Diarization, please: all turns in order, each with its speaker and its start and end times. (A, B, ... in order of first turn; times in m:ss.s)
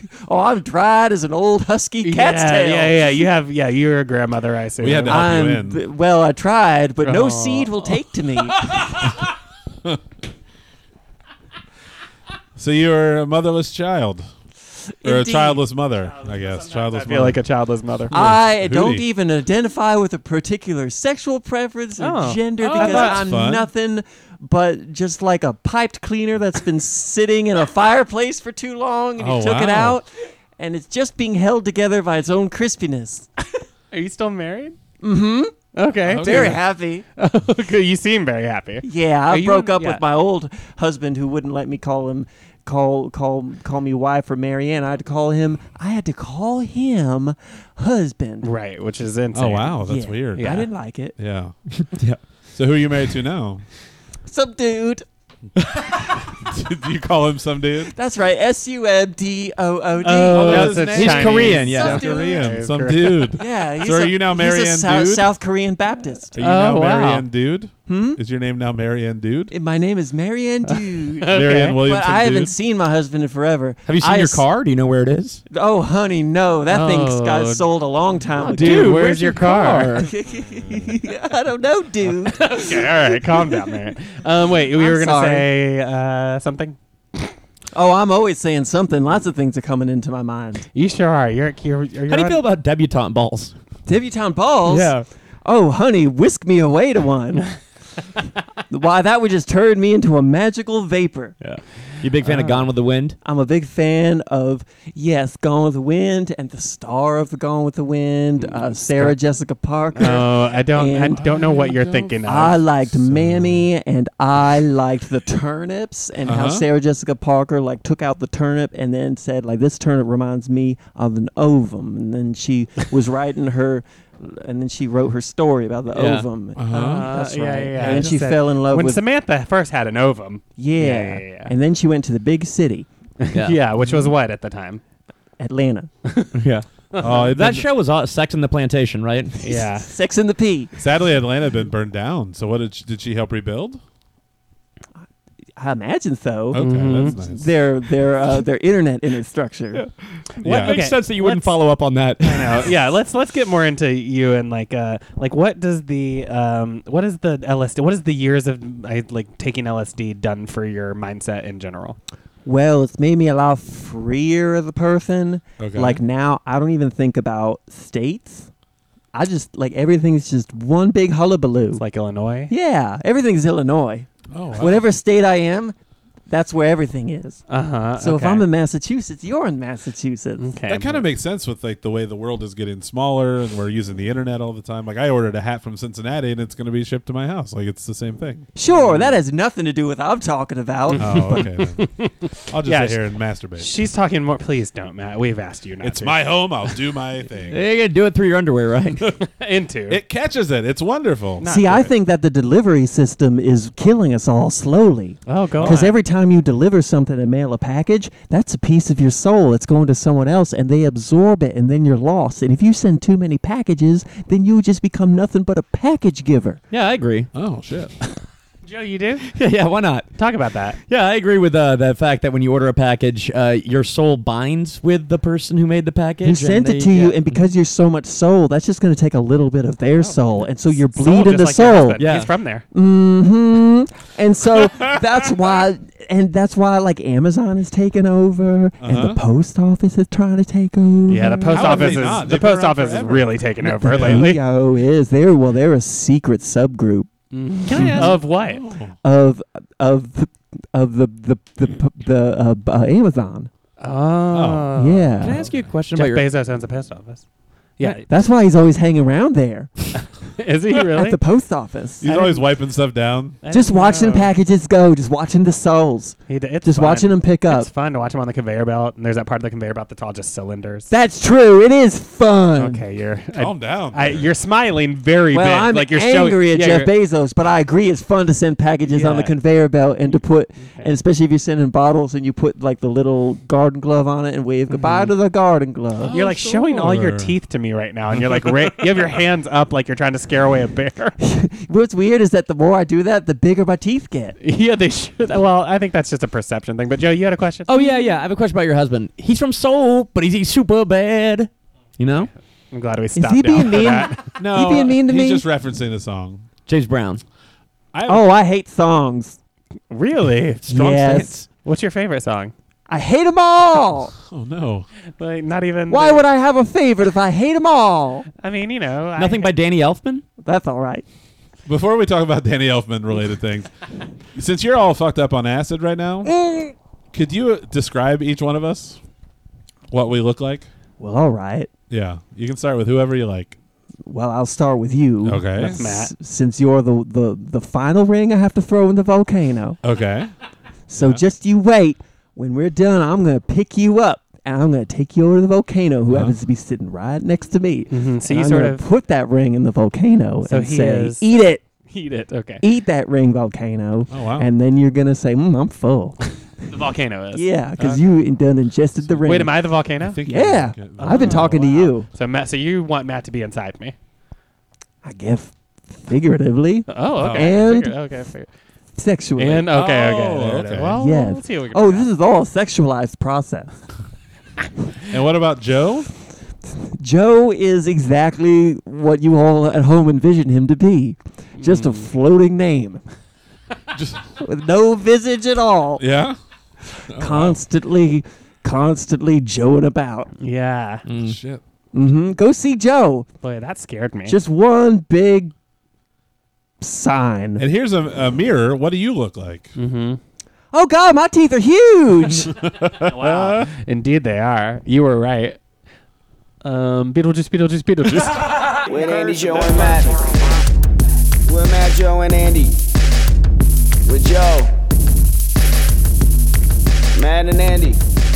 0:00.2-0:03.1 A
0:02.0-0:05.3 B
0:04.8-0:05.8 C
0:05.1-0:08.7 A
0:07.0-0:08.0 B
0:12.6-0:14.3 C
0:15.0-0:17.4 C
0:15.0-0:15.6 A
0:16.0-0:18.2 B
0:18.1-0:19.1 C
0:18.1-0:30.1 A
0:22.0-0:23.2 B
0:23.1-0:23.7 C
0:29.2-0:30.0 C
0:30.6-0:33.3 A
0:33.9-0:34.8 B
0:35.0-0:35.5 A
0:35.7-0:40.0 B
0:36.0-0:36.6 C
0:36.2-0:37.0 A
0:38.8-0:48.5 A
0:48.4-0:49.8 B
0:49.3-0:50.6 C
0:49.8-0:51.2 A
0:50.4-0:50.7 B
0:51.2-0:51.5 C
0:51.8-0:52.2 D
0:52.5-0:53.6 C
0:54.3-0:55.0 A
0:55.7-0:56.0 D
0:56.2-0:58.0 C
0:57.8-1:01.1 A
1:00.0-1:03.3 B
1:00.3-1:05.3 C
1:00.3-1:02.0 D
1:01.6-1:02.4 A
1:03.4-1:06.4 A
1:06.3-1:09.5 C
1:06.4-1:07.3 B
1:07.9-1:08.2 A
1:09.5-1:14.5 A
1:10.7-1:11.8 B
1:11.3-1:12.6 C
1:13.9-1:15.4 D
1:15.5-1:19.0 A
1:16.7-1:17.7 B
1:18.4-1:20.1 D
1:18.5-1:20.0 B
1:19.9-1:23.8 A
1:22.3-1:27.3 B
1:24.7-1:25.5 A
1:27.7-1:30.7 A
1:30.7-1:32.4 B
1:32.1-1:33.5 D
1:33.9-1:37.5 A
1:34.7-1:35.0 D
1:38.7-1:41.4 A
1:41.4-1:43.2 D
1:42.1-1:42.7 B
1:43.2-1:51.2 A
1:49.9-1:52.6 B
1:51.2-1:52.2 C
1:52.2-2:09.0 A
1:52.8-1:53.7 C
1:56.2-1:56.7 C
2:05.9-2:06.3 D
2:06.6-2:07.2 C
2:06.7-2:11.5 B
2:07.8-2:08.2 C
2:10.6-2:12.9 A
2:13.2-2:14.8 B
2:13.3-2:13.6 D
2:15.4-2:15.9 A
2:16.3-2:16.7 D
2:16.9-2:17.3 B
2:17.0-2:17.7 C
2:17.2-2:19.4 D
2:19.4-2:20.7 A
2:19.4-2:19.9 B
2:20.8-2:23.8 C
2:25.6-2:29.8 A
2:26.5-2:27.5 C
2:26.6-2:27.2 B
2:30.4-2:31.6 B
2:30.4-2:30.9 C
2:30.4-2:32.7 D
2:32.2-2:42.0 B
2:42.4-2:48.5 A
2:45.6-2:46.0 C
2:49.1-2:51.8 A
2:51.8-2:52.5 B
2:52.5-2:55.8 A
2:54.3-2:54.9 C
2:56.3-2:57.4 A
2:57.5-2:58.5 B
2:58.0-3:00.5 A
3:00.4-3:01.1 B
3:00.7-3:08.5 C
3:08.6-3:11.5 A
3:08.7-3:09.2 B
3:10.9-3:13.0 B
3:11.0-3:11.9 C
3:12.5-3:13.7 C
3:13.6-3:16.2 B
3:15.8-3:17.6 C
3:17.5-3:19.1 D
3:19.2-3:20.0 B
3:19.9-3:21.5 C
3:21.4-3:21.9 B
3:21.5-3:36.6 A
3:25.3-3:26.0 B
3:36.7-3:37.3 D
3:37.3-3:37.9 C
3:38.6-3:39.3 B
3:39.3-3:40.1 D
3:40.1-3:40.8 B
3:40.9-3:47.4 D
3:46.2-3:52.0 A
3:50.0-3:52.7 B
3:52.0-3:52.3 D
3:52.7-4:02.3 A
3:54.6-3:55.6 C
3:58.8-3:59.2 C
4:01.1-4:04.4 B
4:01.5-4:04.3 C
4:03.6-4:07.1 A
4:07.3-4:08.6 B
4:07.7-4:08.1 A
4:07.9-4:09.0 C
4:09.0-4:13.5 A
4:13.8-4:17.2 B
4:14.3-4:14.8 C
4:14.8-4:15.4 A
4:15.2-4:16.2 D
4:17.8-4:18.1 B
4:17.8-4:19.7 A
4:19.9-4:21.2 B
4:20.9-4:22.0 A
4:22.0-4:23.4 C
4:22.0-4:22.5 B
4:23.4-4:24.3 B
4:23.5-4:27.7 A
4:26.3-4:30.9 B
4:30.9-4:32.8 A
4:32.6-4:36.9 B
4:33.3-4:34.3 C
4:35.3-4:46.1 A
4:38.9-4:39.4 B
4:40.1-4:40.9 B
4:44.7-4:45.1 B
4:46.0-4:47.4 C
4:46.1-4:51.1 B
4:48.1-4:49.1 C
4:51.2-4:54.4 A
4:54.4-4:57.7 B
4:57.7-5:02.3 D
5:02.7-5:04.3 B
5:03.2-5:05.5 A
5:04.4-5:06.5 C
5:06.7-5:07.2 D
5:07.9-5:08.3 C
5:08.1-5:09.4 A
5:09.9-5:12.5 B
5:10.7-5:11.4 A
5:12.9-5:14.1 A
5:14.2-5:14.9 C
5:15.2-5:16.3 B
5:15.9-5:18.3 A
5:18.4-5:19.5 B
5:19.2-5:20.2 D
5:20.4-5:21.0 A
5:21.7-5:23.7 C
5:24.4-5:26.3 C
5:26.2-5:26.7 A
5:27.1-5:29.0 C
5:29.9-5:30.7 C
5:31.0-5:31.7 A
5:31.9-5:33.6 C
5:34.1-5:39.8 A
5:35.2-5:35.9 C
5:35.7-5:36.1 B
5:39.8-5:40.3 C
5:40.9-5:51.6 A
5:41.0-5:41.2 C
5:46.1-5:46.4 C
5:47.9-5:48.8 B
5:50.5-5:52.6 B
5:52.6-5:56.2 A
5:54.1-5:54.5 C
5:56.6-5:58.0 B
5:57.3-5:59.6 A
5:59.0-5:59.3 C
5:59.2-6:00.2 B
6:00.0-6:01.6 C
6:00.3-6:02.1 A
6:01.0-6:04.0 B
6:05.0-6:08.0 A
6:06.9-6:08.5 B
6:07.2-6:07.7 C
6:09.0-6:09.7 A
6:09.4-6:12.1 B
6:09.7-6:11.0 C
6:11.0-6:13.8 A
6:15.1-6:16.1 C
6:17.0-6:23.0 A
6:21.6-6:22.1 B
6:23.9-6:24.3 C
6:24.4-6:26.0 A
6:26.0-6:26.4 C
6:27.1-6:27.6 C
6:27.2-6:30.3 A
6:30.4-6:31.1 B
6:31.1-6:31.4 D
6:31.2-6:31.6 C
6:31.9-6:33.3 A
6:33.4-6:34.4 B
6:34.3-6:35.5 A
6:36.8-6:37.6 A
6:37.6-6:39.7 C
6:39.8-6:40.2 B
6:40.7-6:42.5 A
6:42.5-6:43.7 C
6:42.9-6:45.6 B
6:46.6-6:48.9 B
6:48.9-6:50.1 E
6:49.0-6:50.1 C
6:51.4-6:52.8 E
6:51.6-6:52.6 C
6:54.0-6:54.7 E
6:54.2-6:54.7 C
6:57.2-6:58.0 E
6:57.2-6:58.0 C